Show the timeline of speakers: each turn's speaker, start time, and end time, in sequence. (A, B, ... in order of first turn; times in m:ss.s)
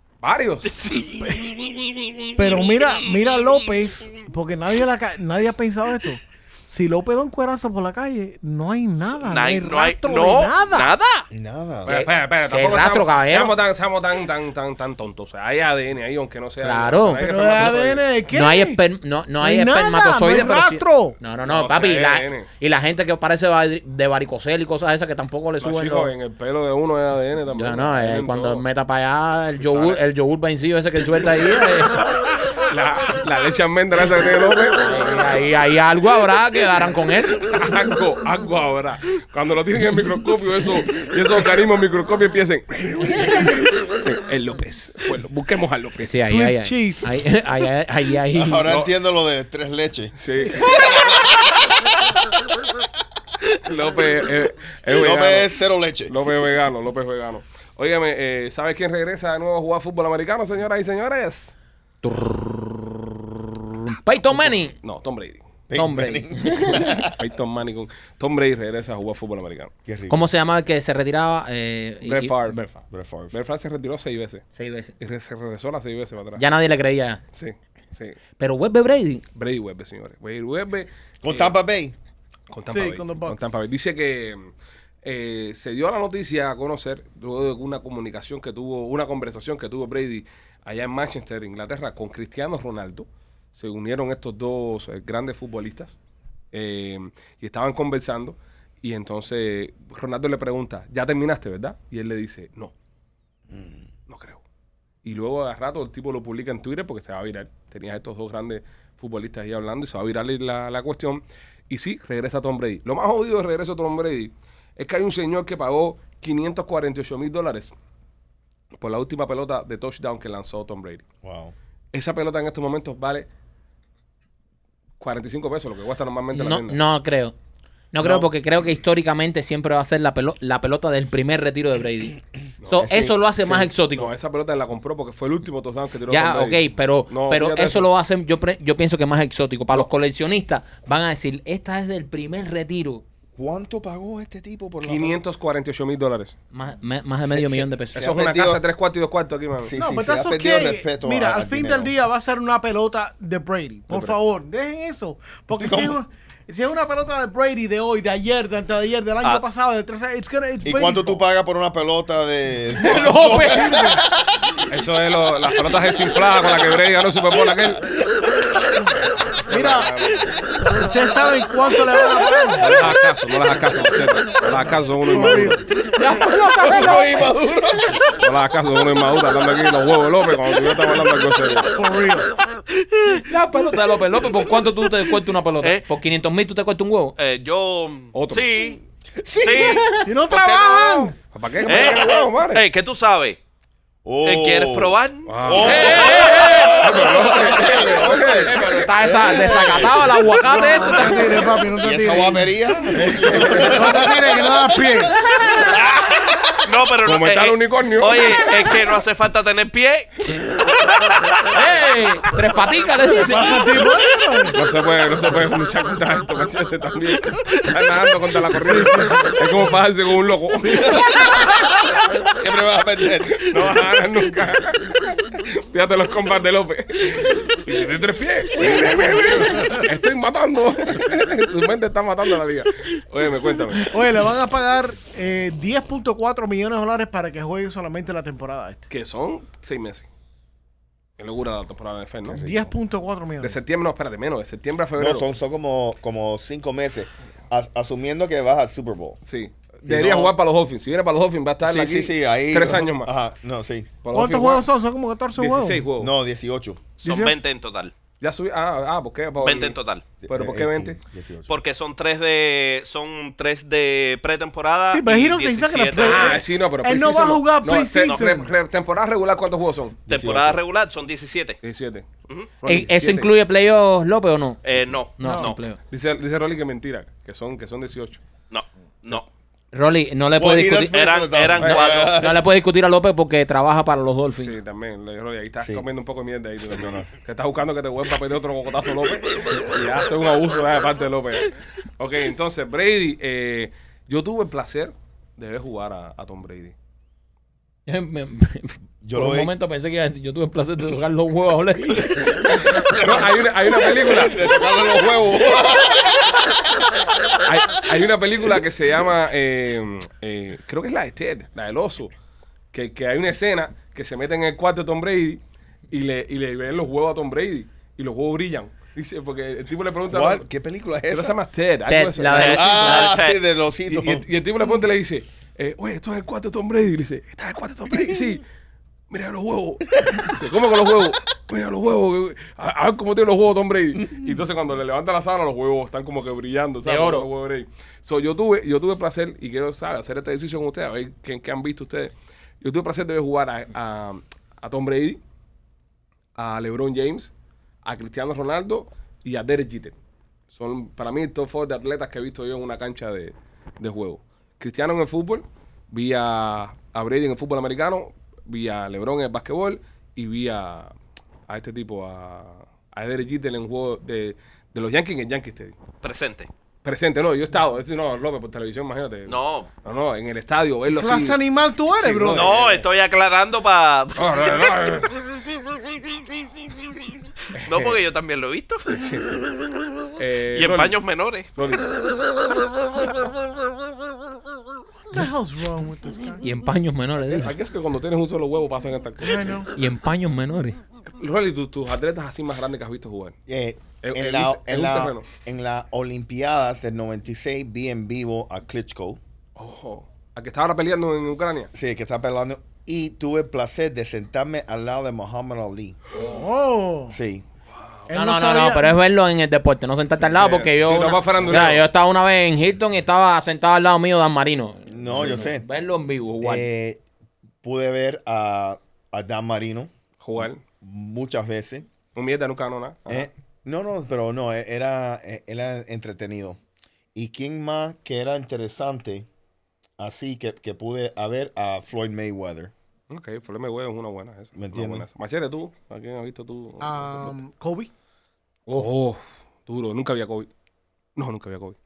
0:00.2-0:00.7 A
0:00.6-0:03.0 B
0:02.4-0:10.9 C
0:09.2-0:11.3 B
0:11.3-0:12.1 D
0:11.8-0:18.1 A
0:12.5-0:13.6 E
0:16.6-0:17.7 E
0:17.2-0:18.8 C
0:18.3-0:26.1 E
0:19.4-0:21.2 C
0:21.4-0:22.5 A
0:25.6-0:28.6 A
0:27.5-0:32.1 E
0:29.6-0:30.0 A
0:32.6-0:34.8 A
0:34.8-0:37.5 E
0:37.4-0:46.1 A
0:46.0-0:48.7 E
0:46.2-0:47.2 C
0:48.3-0:51.3 D
0:50.2-0:51.2 A
0:53.5-0:55.5 A
0:54.9-0:56.1 D
0:56.1-1:01.5 A
1:02.0-1:03.0 E
1:03.8-1:04.8 E
1:04.4-1:05.4 A
1:05.7-1:07.2 D
1:05.8-1:07.1 E
1:07.0-1:09.7 A
1:09.8-1:10.2 D
1:10.1-1:12.8 E
1:12.0-1:12.6 A
1:12.9-1:13.4 D
1:13.3-1:14.4 A
1:14.6-1:14.9 E
1:15.0-1:16.4 A
1:16.4-1:17.2 E
1:17.3-1:18.2 A
1:18.4-1:19.2 E
1:19.3-1:21.5 A
1:21.2-1:22.0 D
1:22.5-1:24.5 A
1:22.7-1:23.6 C
1:25.0-1:36.0 A
1:36.5-1:42.7 A
1:43.5-1:43.9 D
1:44.1-1:44.4 A
1:45.0-1:57.7 A
1:58.8-2:01.0 A
2:01.2-2:01.6 D
2:01.9-2:03.3 A
2:05.0-2:06.8 A
2:06.3-2:07.4 E
2:07.9-2:14.1 E
2:08.0-2:08.3 D
2:12.6-2:12.9 A
2:12.7-2:13.6 D
2:13.5-2:17.9 A
2:16.1-2:23.0 E
2:23.4-2:25.2 D
2:24.8-2:26.4 A
2:26.5-2:28.1 E
2:27.3-2:28.6 D
2:28.0-2:29.7 A
2:29.6-2:31.9 D
2:29.8-2:41.2 C
2:33.9-2:34.2 A
2:35.6-2:36.0 D
2:40.6-2:44.5 D
2:42.8-2:43.9 E
2:42.9-2:44.0 C
2:44.7-2:47.9 A
2:49.4-2:50.4 A
2:49.5-2:49.9 C
2:50.6-2:53.0 C
2:52.6-2:53.0 D
2:52.6-2:55.6 A
2:55.0-2:55.6 C
2:55.8-2:57.4 E
2:56.5-2:58.0 D
2:58.2-3:01.8 A
3:01.7-3:02.3 C
3:02.8-3:03.2 B
3:03.2-3:07.2 E
3:07.2-3:08.8 B
3:08.1-3:08.5 A
3:09.2-3:09.9 D
3:09.4-3:11.1 B
3:10.0-3:11.2 C
3:11.3-3:12.6 A
3:11.6-3:13.4 B
3:11.6-3:12.3 D
3:14.0-3:26.6 D
3:14.2-3:15.6 B
3:15.3-3:18.9 A
3:15.6-3:21.3 E
3:20.4-3:22.5 C
3:23.1-3:23.7 E
3:23.2-3:23.8 A
3:23.4-3:25.2 C
3:26.6-3:31.4 B
3:27.0-3:28.5 A
3:31.5-3:33.9 E
3:33.2-3:34.6 C
3:34.5-3:41.1 A
3:38.5-3:39.5 C
3:40.7-3:43.8 D
3:43.3-3:53.9 A
3:53.9-3:58.9 C
3:58.9-4:00.1 A
4:01.2-4:02.5 A
4:02.3-4:02.7 D
4:02.4-4:03.6 C
4:03.4-4:05.3 A
4:05.0-4:09.2 D
4:09.2-4:13.1 A
4:09.8-4:10.4 D
4:11.6-4:13.9 D
4:14.0-4:14.7 A
4:14.1-4:15.9 C
4:15.4-4:16.1 A
4:16.0-4:16.8 D
4:17.0-4:17.9 B
4:17.0-4:17.4 C
4:18.2-4:19.8 A
4:19.4-4:20.0 B
4:20.2-4:21.5 D
4:20.3-4:21.0 A
4:21.5-4:26.4 B
4:24.9-4:28.5 C
4:26.0-4:30.1 A
4:30.1-4:30.6 D
4:30.1-4:31.6 B
4:31.6-4:32.1 A
4:32.6-4:33.3 A
4:32.6-4:34.6 E
4:34.6-4:35.6 B
4:35.2-4:35.8 E
4:35.2-4:35.5 C
4:35.9-4:38.2 A
4:38.5-4:39.3 B
4:39.7-4:41.0 E
4:40.4-4:42.4 D
4:40.9-4:42.2 B
4:42.1-4:44.6 E
4:44.4-4:56.8 A
4:45.6-4:45.9 D
4:46.7-4:47.1 D
4:57.9-5:02.8 E
4:59.0-4:59.5 D
5:02.7-5:06.5 D
5:02.8-5:04.5 A
5:07.4-5:12.1 A
5:12.7-5:20.5 A
5:20.1-5:21.4 D
5:21.1-5:22.8 A
5:21.9-5:23.2 E
5:22.3-5:23.4 B
5:22.4-5:24.3 D
5:23.9-5:28.4 A
5:27.9-5:28.3 D
5:29.1-5:45.2 A
5:30.0-5:30.3 D
5:36.8-5:37.3 E
5:46.4-5:50.0 A
5:50.5-6:00.9 A
6:01.5-6:05.8 A
6:06.0-6:06.5 B
6:06.8-6:11.4 A
6:09.3-6:09.7 B
6:10.9-6:12.6 C
6:11.9-6:12.8 A
6:12.3-6:16.5 B
6:14.2-6:15.2 A
6:17.6-6:18.0 A
6:17.6-6:19.6 B
6:18.9-6:19.4 A
6:20.2-6:21.0 A
6:20.5-6:21.5 B
6:21.6-6:21.9 A
6:25.1-6:26.4 C
6:26.4-6:27.6 E
6:27.2-6:29.6 A
6:29.2-6:29.7 C
6:29.7-6:30.8 E
6:31.1-6:33.4 A
6:33.5-6:39.2 D
6:34.0-6:35.3 A
6:39.6-6:41.7 A
6:41.7-6:46.0 D
6:46.2-6:47.2 C
6:47.1-6:47.4 D
6:47.8-6:48.0 A
6:48.1-6:49.0 C
6:48.1-6:56.7 E
6:50.2-6:51.8 A
6:54.9-6:55.7 D
6:56.4-6:57.0 D
6:57.6-7:01.9 D
7:00.2-7:00.6 A
7:02.1-7:03.3 A
7:03.1-7:06.6 D
7:07.2-7:09.3 D
7:10.0-7:12.7 D
7:13.1-7:17.4 A
7:14.6-7:15.1 D
7:16.8-7:17.9 C
7:18.7-7:20.5 A
7:21.2-7:21.8 A